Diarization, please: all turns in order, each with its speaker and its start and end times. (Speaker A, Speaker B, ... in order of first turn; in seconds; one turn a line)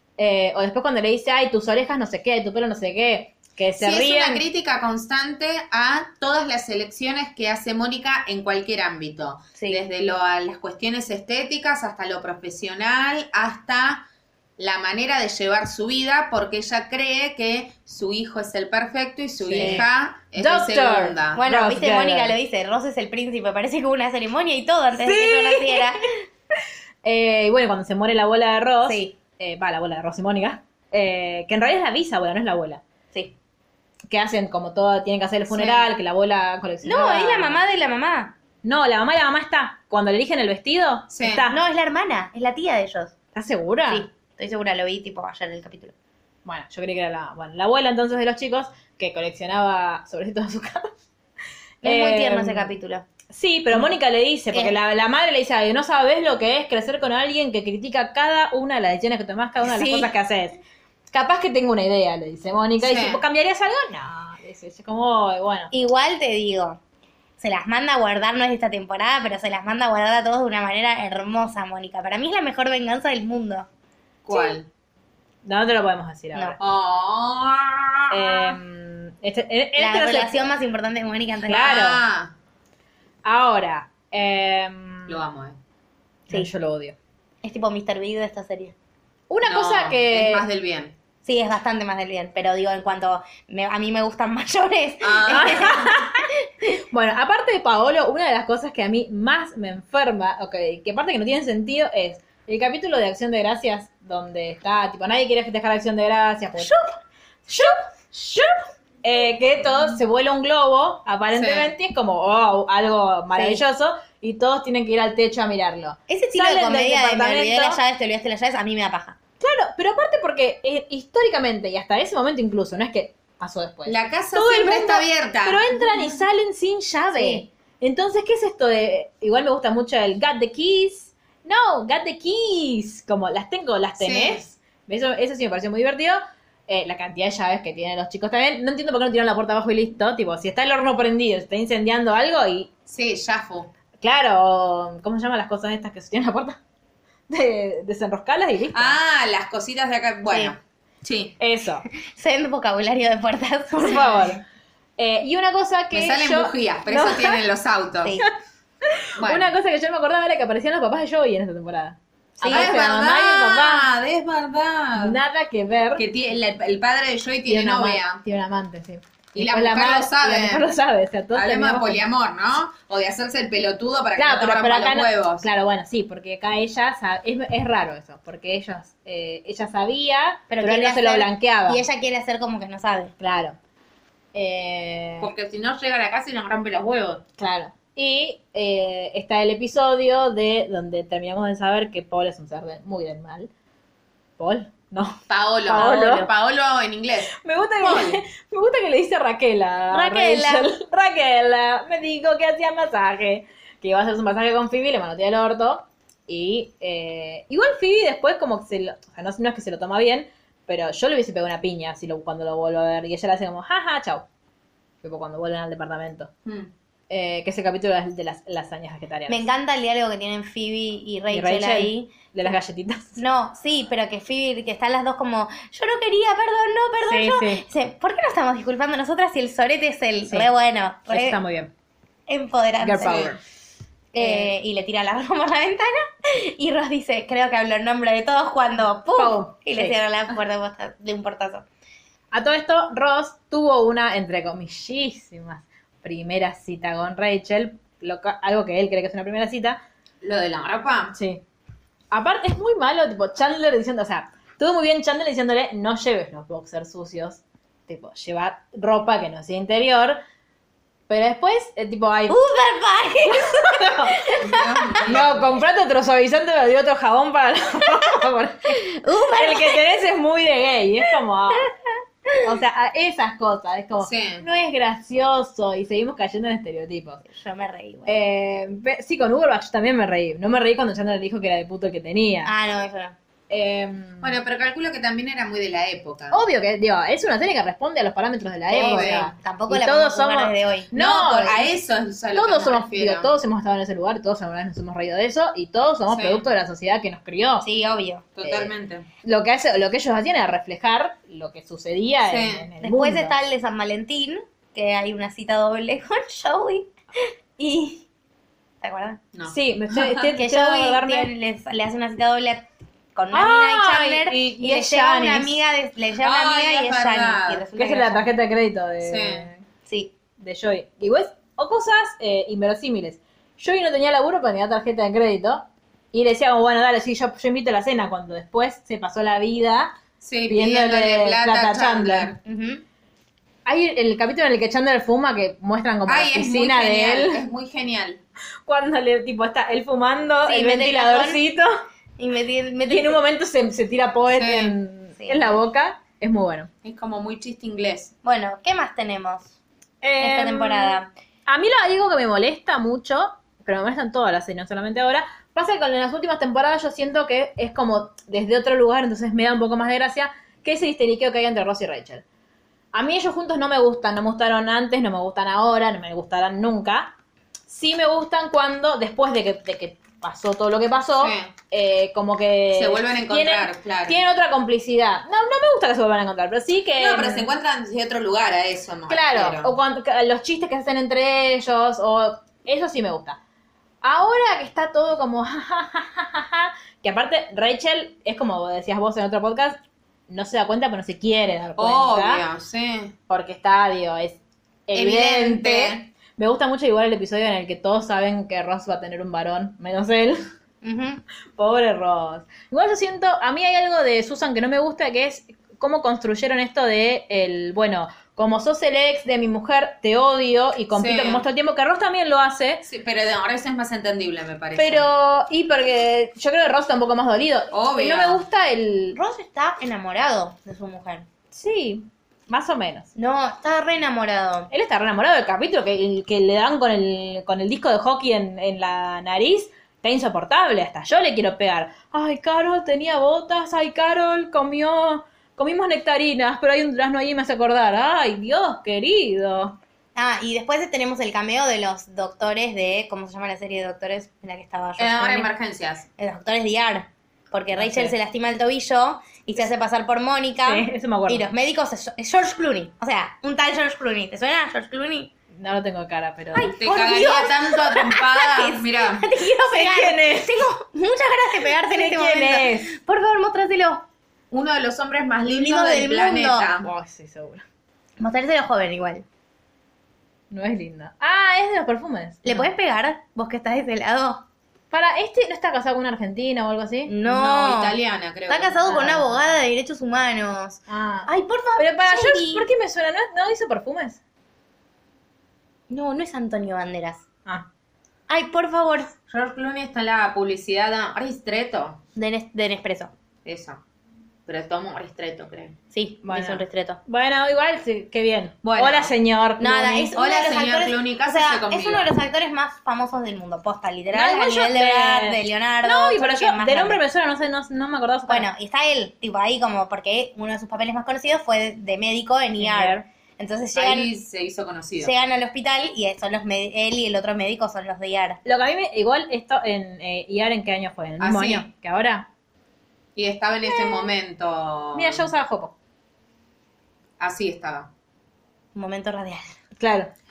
Speaker A: 0.2-4.4
Speaker B: 3.8-14.1
Speaker B: 14.6-21.4
Speaker A: 19.4-22.3
Speaker C: 19.6-19.9
Speaker C: 21.3-26.1
Speaker A: 25.0-25.9
Speaker A: 27.0-32.8
Speaker C: 28.9-29.2
Speaker A: 34.1-37.6
Speaker C: 35.5-35.9
Speaker C: 36.8-38.4
Speaker A: 38.6-41.6
Speaker B: 41.1-41.4
Speaker C: 41.5-43.1
Speaker A: 43.4-44.1
Speaker C: 43.9-46.0
Speaker A: 46.5-50.9
Speaker A: 51.8-52.7
Speaker C: 51.8-53.1
Speaker A: 53.3-60.6
Speaker C: 59.6-60.1
Speaker A: 61.1-65.7
Speaker B: 62.8-63.2
Speaker C: 65.7-66.8
Speaker C: 67.4-73.7
Speaker B: 74.3-74.7
Speaker C: 74.3-74.5
Speaker A: 75.5-76.6
Speaker B: 76.6-78.6
Speaker A: 78.1-80.4
Speaker C: 79.8-81.8
Speaker A: 81.5-82.0
Speaker B: 81.5-82.3
Speaker A: 83.2-85.2
Speaker B: 85.1-85.6
Speaker A: 86.3-87.0
Speaker C: 87.4-88.8
Speaker A: 89.3-90.5
Speaker B: 89.5-91.0
Speaker C: 91.2-96.8
Speaker B: 95.0-95.8
Speaker A: 95.3-96.2
Speaker A: 96.9-106.8
Speaker A: 107.5-117.8
Speaker B: 111.3-111.7
Speaker C: 113.3-113.6
Speaker C: 116.1-119.2
Speaker A: 119.4-142.7
Speaker B: 123.9-125.7
Speaker C: 125.8-126.2
Speaker C: 127.1-127.5
Speaker B: 134.0-134.4
Speaker B: 142.9-143.7
Speaker A: 144.0-146.6
Speaker A: 147.3-149.0
Speaker B: 148.7-151.4
Speaker C: 150.3-150.6
Speaker A: 151.4-151.8
Speaker C: 152.0-154.3
Speaker A: 153.8-154.4
Speaker A: 155.0-157.4
Speaker B: 155.9-158.2
Speaker A: 159.0-163.9
Speaker B: 159.2-159.5
Speaker C: 162.4-162.8
Speaker B: 162.5-165.2
Speaker A: 165.0-166.1
Speaker B: 166.0-168.2
Speaker A: 167.5-172.0
Speaker B: 169.3-170.7
Speaker B: 171.3-175.5
Speaker A: 174.2-181.8
Speaker C: 180.5-183.1
Speaker A: 183.2-183.6
Speaker A: 184.3-185.3
Speaker B: 185.2-187.2
Speaker A: 187.4-193.5
Speaker A: 194.4-196.3
Speaker B: 195.3-198.2
Speaker A: 197.4-214.3
Speaker C: 199.9-200.7
Speaker A: 215.0-216.3
Speaker B: 216.4-216.7
Speaker A: 217.1-219.5
Speaker C: 219.3-222.1
Speaker A: 221.3-223.2
Speaker C: 223.2-231.4
Speaker A: 227.0-227.6
Speaker A: 231.1-231.7
Speaker C: 232.3-233.3
Speaker A: 232.8-233.4
Speaker B: 233.0-233.3
Speaker C: 234.1-241.7
Speaker A: 234.2-234.5
Speaker A: 239.2-240.0
Speaker A: 242.3-249.8
Speaker B: 250.2-251.2
Speaker A: 251.1-251.4
Speaker A: 252.1-260.2
Speaker A: 261.1-262.4
Speaker C: 262.3-265.1
Speaker A: 263.4-264.2
Speaker B: 264.4-265.5
Speaker A: 265.1-268.8
Speaker C: 268.7-269.8
Speaker A: 269.4-271.7
Speaker A: 272.4-277.2
Speaker B: 274.0-274.4
Speaker C: 277.3-278.2
Speaker A: 278.1-282.5
Speaker C: 282.4-283.2
Speaker A: 283.5-284.4
Speaker B: 284.2-286.4
Speaker A: 286.3-291.7
Speaker C: 288.7-290.9
Speaker B: 288.7-289.3
Speaker B: 290.9-293.3
Speaker A: 292.3-297.7
Speaker B: 296.1-296.5
Speaker C: 297.6-298.3
Speaker B: 298.4-299.1
Speaker A: 298.4-298.7
Speaker A: 299.2-303.4
Speaker B: 302.2-302.7
Speaker C: 302.8-308.1
Speaker C: 308.8-309.2
Speaker B: 309.3-310.2
Speaker A: 309.5-311.3
Speaker C: 310.3-318.3
Speaker A: 313.3-315.6
Speaker B: 316.2-317.6
Speaker A: 317.8-319.6
Speaker B: 319.0-319.5
Speaker C: 319.9-320.1
Speaker A: 320.4-329.9
Speaker B: 330.2-332.4
Speaker A: 330.5-332.3
Speaker C: 332.4-332.8
Speaker A: 333.7-337.4
Speaker B: 336.1-338.2
Speaker A: 338.7-341.8
Speaker C: 340.4-341.4
Speaker C: 342.2-343.2
Speaker A: 342.9-346.7
Speaker B: 344.3-344.7
Speaker C: 345.2-345.6
Speaker B: 346.8-348.1
Speaker C: 348.2-349.5
Speaker A: 350.0-362.2
Speaker C: 350.2-351.1
Speaker A: 362.9-367.1
Speaker A: 367.7-377.5
Speaker B: 371.1-371.5
Speaker B: 372.7-374.2
Speaker B: 377.0-379.7
Speaker A: 379.1-383.4
Speaker A: 384.0-392.4
Speaker B: 391.8-393.1
Speaker A: 393.3-400.4
Speaker B: 394.9-396.0
Speaker C: 400.8-401.2
Speaker A: 401.6-412.9
Speaker B: 410.9-411.4
Speaker B: 412.9-415.1
Speaker A: 414.8-419.2
Speaker B: 417.7-418.4
Speaker C: 419.1-421.3
Speaker A: 421.5-423.1
Speaker C: 423.1-424.7
Speaker A: 424.7-439.8
Speaker C: 440.2-445.5
Speaker B: 445.0-446.1
Speaker C: 446.2-455.3
Speaker A: 447.7-448.1
Speaker A: 450.6-451.5
Speaker A: 455.6-456.7
Speaker C: 456.5-464.0
Speaker B: 456.8-459.3
Speaker A: 459.7-460.6
Speaker A: 461.9-462.9
Speaker B: 464.5-466.9
Speaker C: 465.5-466.7
Speaker A: 466.8-467.6
Speaker C: 468.2-469.2
Speaker A: 470.5-472.7
Speaker C: 472.4-474.4
Speaker A: 474.9-477.1
Speaker C: 477.1-482.7
Speaker B: 477.2-479.0
Speaker A: 478.9-479.3
Speaker A: 480.9-484.2
Speaker C: 485.9-487.2
Speaker C: 488.3-489.1
Speaker B: 489.3-492.0
Speaker C: 492.2-493.1
Speaker B: 493.4-493.8
Speaker B: 494.5-495.8
Speaker C: 495.9-497.0
Speaker A: 496.2-500.1
Speaker B: 498.6-499.1
Speaker C: 499.6-507.0
Speaker B: 500.2-502.1
Speaker A: 504.1-508.5
Speaker C: 508.3-514.1
Speaker A: 512.6-513.0
Speaker B: 513.7-515.1
Speaker C: 515.0-518.4
Speaker A: 518.5-522.3
Speaker B: 521.2-521.7
Speaker B: 523.2-525.2
Speaker A: 523.6-524.1
Speaker A: 524.9-525.7
Speaker B: 527.2-527.9
Speaker C: 528.8-529.4
Speaker A: 529.8-530.1